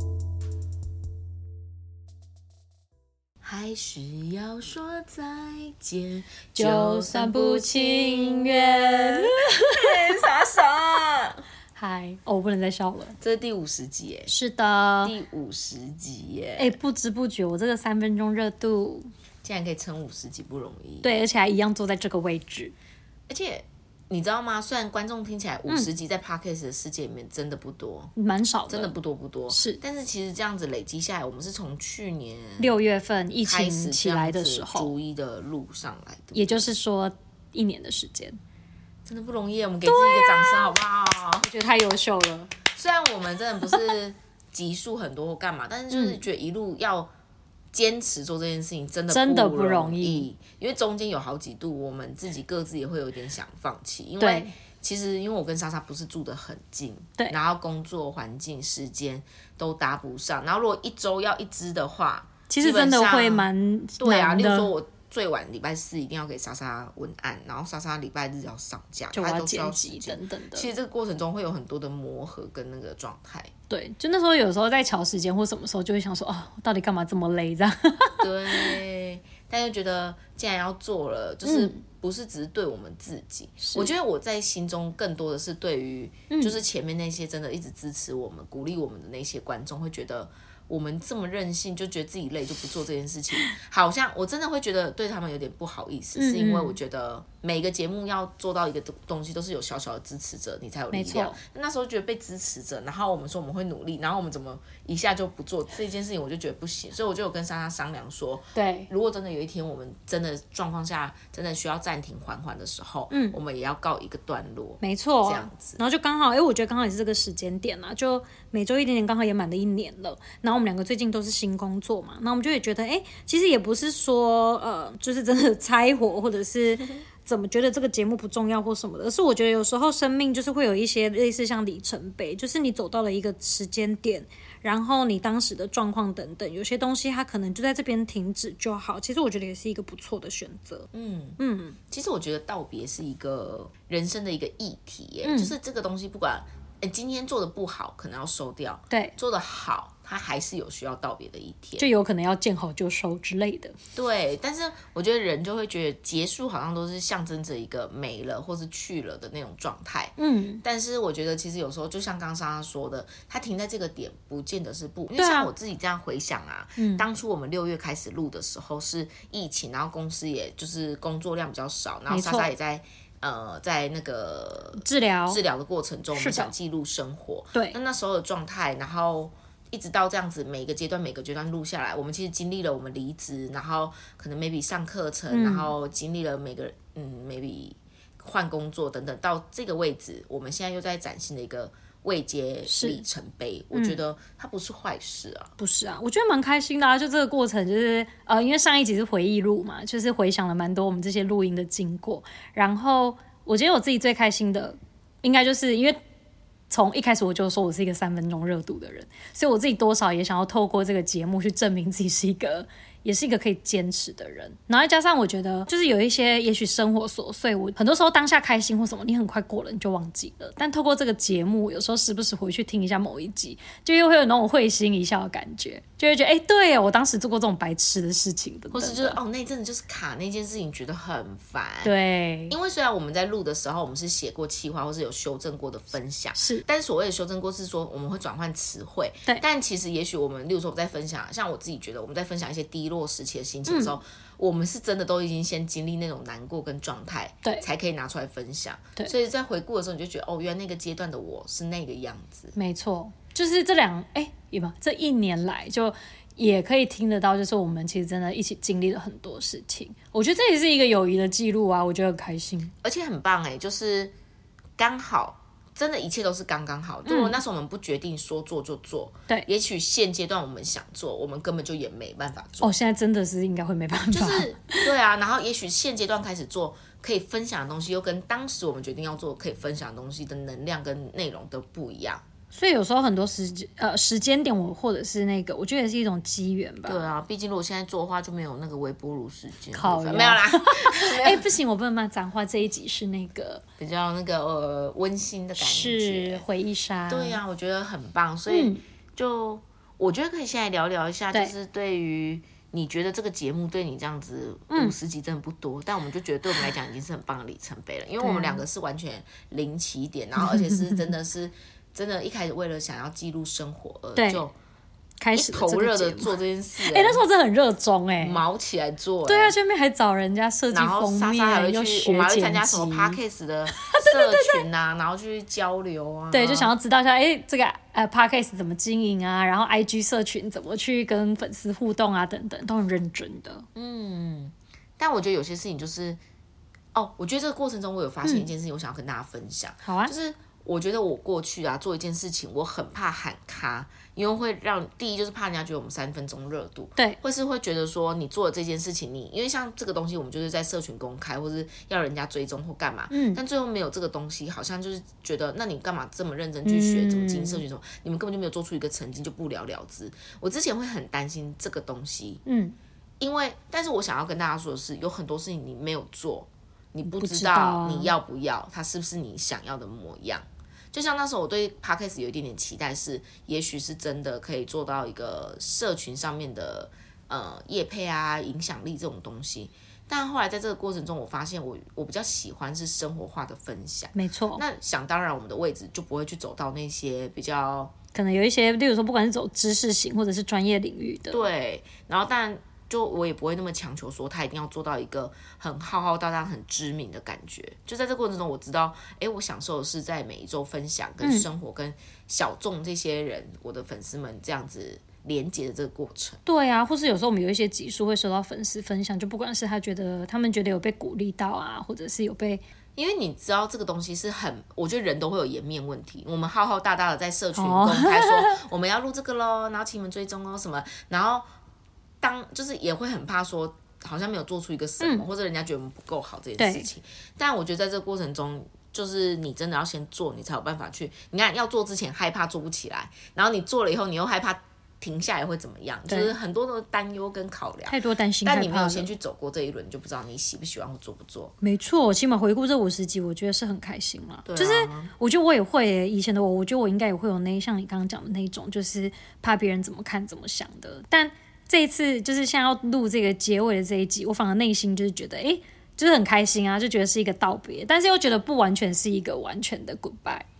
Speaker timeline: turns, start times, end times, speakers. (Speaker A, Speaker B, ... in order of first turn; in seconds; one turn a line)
Speaker A: 3.4-11.4
Speaker B: 6.5-10.2
Speaker B: 11.8-13.2
Speaker A: 13.2-14.3
Speaker B: 14.3-15.1
Speaker A: 15.0-16.8
Speaker B: 16.6-19.1
Speaker A: 19.4-21.1
Speaker B: 21.0-22.7
Speaker A: 23.3-28.1
Speaker B: 28.1-28.9
Speaker A: 28.7-32.7
Speaker B: 29.5-29.8
Speaker B: 32.6-34.9
Speaker A: 33.4-36.7
Speaker B: 36.3-38.4
Speaker A: 39.0-41.5
Speaker B: 39.8-40.7
Speaker B: 41.4-42.5
Speaker A: 42.7-47.1
Speaker B: 45.9-46.2
Speaker A: 47.7-73.5
Speaker B: 49.1-50.2
Speaker B: 54.2-54.5
Speaker B: 62.5-64.7
Speaker B: 69.1-70.7
Speaker B: 73.7-78.8
Speaker A: 78.2-115.8
Speaker B: 81.4-81.8
Speaker B: 83.6-83.9
Speaker B: 86.3-86.5
Speaker B: 96.2-96.8
Speaker B: 100.9-101.4
Speaker B: 108.5-108.9
Speaker B: 113.1-113.4
Speaker B: 114.8-140.9
Speaker A: 140.9-151.9
Speaker B: 141.4-141.8
Speaker B: 145.2-145.5
Speaker B: 151.8-153.7
Speaker A: 153.9-195.5
Speaker B: 160.2-160.6
Speaker B: 165.2-165.5
Speaker B: 166.8-167.0
Speaker B: 172.1-172.5
Speaker B: 174.8-175.4
Speaker B: 176.1-176.5
Speaker B: 185.3-185.7
Speaker B: 192.7-193.0
Speaker B: 193.7-194.0
Speaker B: 195.6-206.0
Speaker B: 206.7-229.2
Speaker A: 228.7-231.9
Speaker B: 231.8-232.5
Speaker A: 232.5-252.5
Speaker B: 236.3-236.6
Speaker B: 243.7-244.0
Speaker B: 252.5-262.7
Speaker A: 262.8-264.1
Speaker A: 264.8-272.7
Speaker B: 267.1-267.4
Speaker B: 272.6-274.9
Speaker A: 274.1-282.2
Speaker B: 282.5-287.1
Speaker A: 286.9-291.5
Speaker B: 289.7-293.6
Speaker A: 293.8-296.4
Speaker B: 295.6-297.4
Speaker A: 297.1-314.5
Speaker B: 298.5-298.8
Speaker B: 308.2-308.6
Speaker B: 310.4-311.1
Speaker B: 314.1-314.4
Speaker B: 315.2-318.4
Speaker A: 315.3-317.2
Speaker A: 318.2-319.6
Speaker B: 319.2-323.2
Speaker A: 320.7-326.7
Speaker B: 323.7-324.6
Speaker B: 326.3-333.6
Speaker A: 333.7-336.2
Speaker A: 336.9-362.4
Speaker B: 339.8-340.1
Speaker B: 353.1-353.4
Speaker B: 356.6-357.6
Speaker B: 362.4-362.7
Speaker A: 363.2-387.9
Speaker B: 367.0-368.1
Speaker B: 384.1-384.6
Speaker B: 388.1-391.4
Speaker A: 391.3-406.4
Speaker B: 401.2-401.5
Speaker B: 406.4-412.6
Speaker A: 412.9-421.4
Speaker B: 417.6-418.6
Speaker A: 422.2-441.5
Speaker B: 426.6-426.9
Speaker B: 436.1-436.3
Speaker B: 437.9-439.1
Speaker B: 441.6-460.4
Speaker A: 444.4-445.1